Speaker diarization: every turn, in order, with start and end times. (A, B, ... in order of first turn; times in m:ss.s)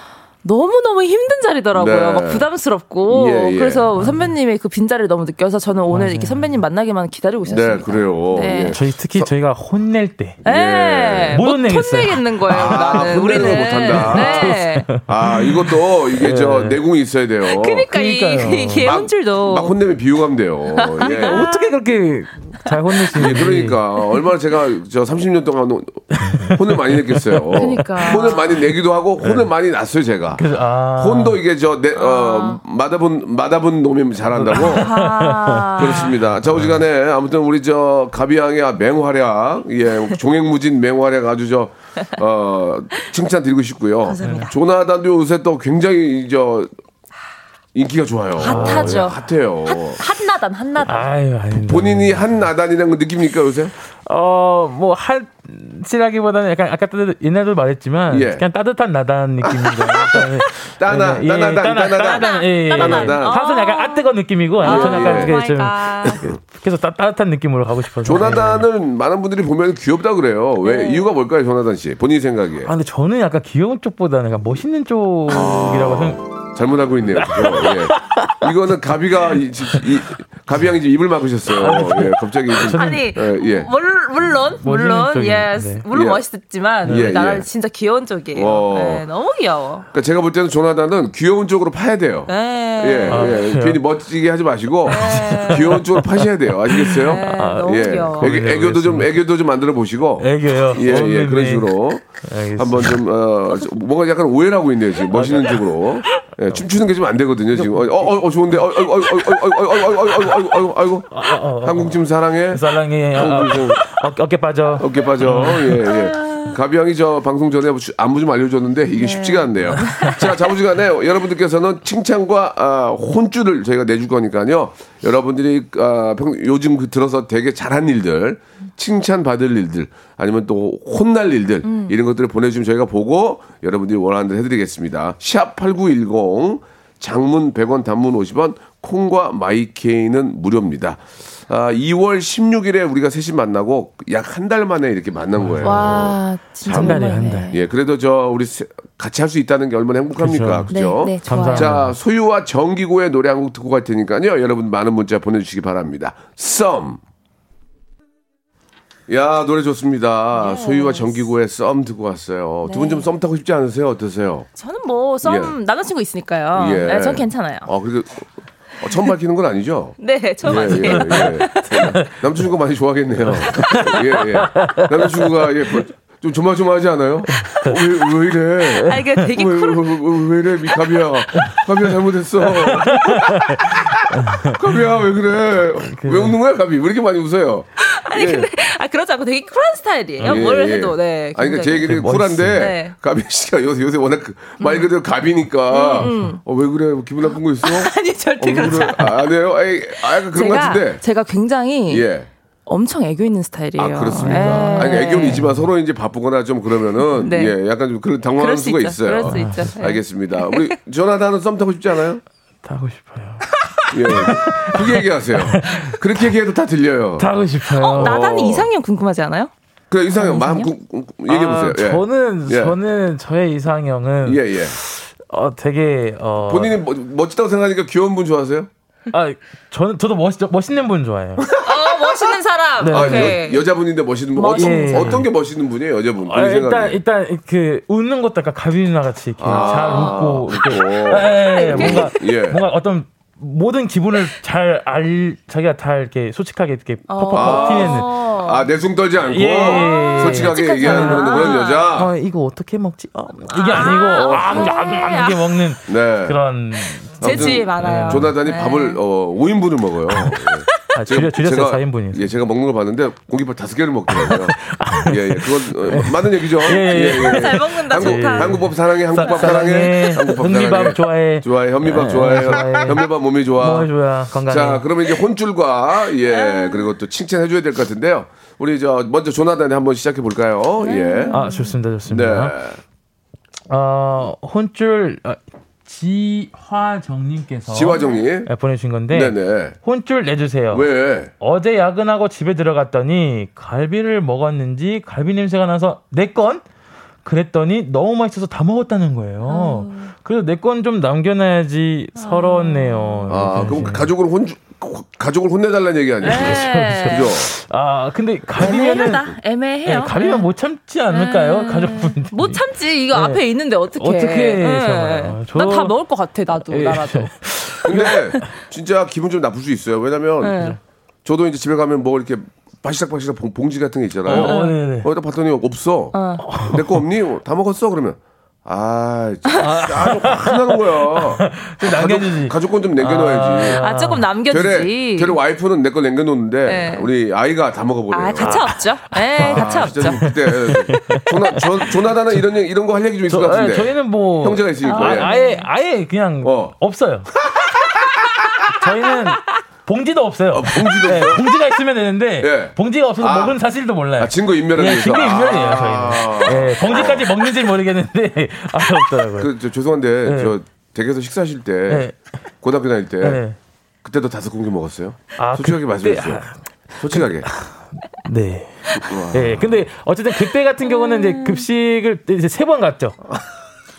0:00.4-0:08.8 A
0:01.7-0:02.5 B
0:03.1-0:03.9 B
0:04.0-0:04.3 C
0:05.9-0:06.6 C
0:07.4-0:09.3 B
0:08.7-0:10.4 C
0:10.4-0:14.9 A
0:10.4-0:11.4 B
0:11.3-0:16.8 C
0:12.5-0:17.9 B
0:17.4-0:19.8 A
0:17.9-0:18.9 C
0:18.8-0:21.5 B
0:20.7-0:21.8 A
0:21.2-0:23.8 C
0:23.1-0:30.4 B
0:26.1-0:28.3 C
0:27.5-0:28.6 A
0:29.2-0:29.5 C
0:30.3-0:31.4 C
0:30.9-0:34.9 B
0:32.0-0:32.6 A
0:34.3-0:36.8 C
0:34.5-0:36.1 A
0:35.8-0:46.7 B
0:44.0-0:44.5 A
0:44.2-0:44.5 C
0:47.7-0:50.0 B
0:48.4-0:51.1 A
0:48.4-0:49.0 C
0:50.8-0:52.3 C
0:51.5-0:53.7 B
0:54.0-1:08.7 C
0:58.1-0:58.4 B
0:59.4-1:03.4 B
1:01.9-1:06.2 A
1:04.6-1:05.3 B
1:06.0-1:06.4 B
1:08.0-1:12.7 B
1:10.6-1:11.1 A
1:12.6-1:16.2 C
1:15.3-1:23.7 B
1:17.2-1:18.4 C
1:19.3-1:19.8 C
1:21.5-1:23.1 C
1:22.6-1:29.8 A
1:24.6-1:25.8 C
1:25.9-1:26.2 B
1:26.8-1:27.1 C
1:26.8-1:27.5 B
1:28.3-1:29.0 B
1:29.9-1:53.9 B
1:32.3-1:33.4 A
1:33.1-1:33.8 C
1:34.8-1:35.8 A
1:34.9-1:39.2 C
1:36.8-1:38.3 A
1:40.2-1:43.0 C
1:45.1-1:46.2 C
1:47.6-1:48.1 C
1:51.1-1:55.9 C
1:54.8-2:37.0 B
1:55.9-1:56.5 A
1:58.9-2:00.4 A
1:59.8-2:00.2 C
2:11.6-2:12.0 A
2:25.4-2:25.9 C
2:25.6-2:27.6 A
2:26.7-2:27.5 C
2:30.2-2:31.9 C
2:30.7-2:31.8 A
2:39.1-2:44.5 B
2:40.3-2:41.3 A
2:42.7-2:43.1 A
2:44.6-2:47.7 A
2:45.2-2:45.5 B
2:46.5-2:48.3 B
2:48.8-3:08.5 B
2:50.0-2:51.9 A
2:50.5-2:51.4 C
2:53.4-2:55.1 C
2:53.5-2:54.0 A
2:57.4-2:57.8 C
2:58.7-2:59.2 C
2:58.8-3:00.9 A
3:02.5-3:04.6 C
3:05.8-3:06.4 C
3:07.8-3:12.9 A
3:10.2-3:10.4 C
3:10.2-3:21.0 B
3:11.8-3:12.6 C
3:14.6-3:14.9 A
3:15.7-3:16.4 A
3:16.0-3:16.3 C
3:17.6-3:19.3 A
3:20.0-3:22.0 A
3:21.9-3:22.3 B
3:22.6-3:25.4 A
3:23.8-3:32.2 B
3:24.2-3:25.7 C
3:27.2-3:27.6 A
3:28.4-3:30.7 A
3:29.3-3:29.7 C
3:32.6-3:33.5 C
3:33.9-3:37.3 B
3:34.1-3:36.0 C
3:37.2-3:38.2 C
3:37.8-3:39.5 A
3:38.0-3:38.7 B
3:39.9-3:42.8 B
3:40.1-3:40.7 A
3:41.3-3:46.8 C
3:44.2-3:44.8 B
3:46.4-3:48.7 B
3:49.1-3:51.5 C
3:51.4-3:52.1 B
3:51.6-3:53.7 A
3:52.8-3:53.4 C
3:52.9-3:57.0 B
3:54.3-3:55.2 A
3:54.5-3:55.2 C
3:56.2-4:08.1 C
3:59.4-4:02.6 B
3:59.5-4:00.2 A
4:01.1-4:02.2 A
4:07.1-4:08.7 A
4:07.3-4:12.1 B
4:09.3-4:18.3 C
4:09.6-4:11.9 A
4:13.5-4:15.6 A
4:13.7-4:14.8 B
4:15.9-4:16.4 B
4:17.2-4:19.0 A
4:17.2-4:33.9 B
4:20.9-4:22.3 C
4:24.1-4:34.8 C
4:26.8-4:29.5 A
4:34.4-4:41.4 B
4:36.2-4:36.9 A
4:40.8-4:41.7 A
4:41.3-4:42.6 C
4:42.1-4:42.8 B
4:43.7-4:56.6 C
4:47.7-4:48.5 B
4:49.1-4:49.8 B
4:50.7-4:51.3 B
4:57.2-5:04.1 C
4:59.5-5:00.1 A
5:02.2-5:03.3 A
5:03.3-5:07.5 B
5:06.2-5:07.3 A
5:06.2-5:09.3 C
5:08.6-5:10.5 A
5:08.6-5:09.3 B
5:09.8-5:12.6 C
5:11.1-5:18.4 A
5:13.1-5:13.4 C
5:14.0-5:15.9 C
5:16.7-5:18.5 C
5:17.8-5:20.7 B
5:20.4-5:20.8 A
5:21.2-5:33.8 B
5:24.2-5:25.1 C
5:24.3-5:24.7 A
5:26.1-5:26.4 A
5:26.4-5:27.0 C
5:29.6-5:34.2 C
5:33.8-5:35.4 A
5:34.5-5:38.7 B
5:36.6-5:37.1 A
5:38.1-5:40.3 A
5:38.4-5:41.6 C
5:39.4-5:45.3 B
5:40.9-5:41.2 A
5:43.3-5:47.3 C
5:44.8-5:45.7 A
5:46.4-5:46.7 B
5:47.6-5:48.3 B
5:48.8-5:59.5 C
5:50.5-5:51.4 B
5:52.4-5:53.6 B
5:54.2-5:57.3 B
5:59.4-6:02.1 B
6:00.2-6:00.5 C
6:01.9-6:02.2 C
6:02.6-6:03.4 B
6:03.2-6:03.6 C
6:04.0-6:06.4 B
6:05.4-6:13.2 C
6:07.0-6:07.5 B
6:09.0-6:09.8 B
6:10.8-6:11.6 A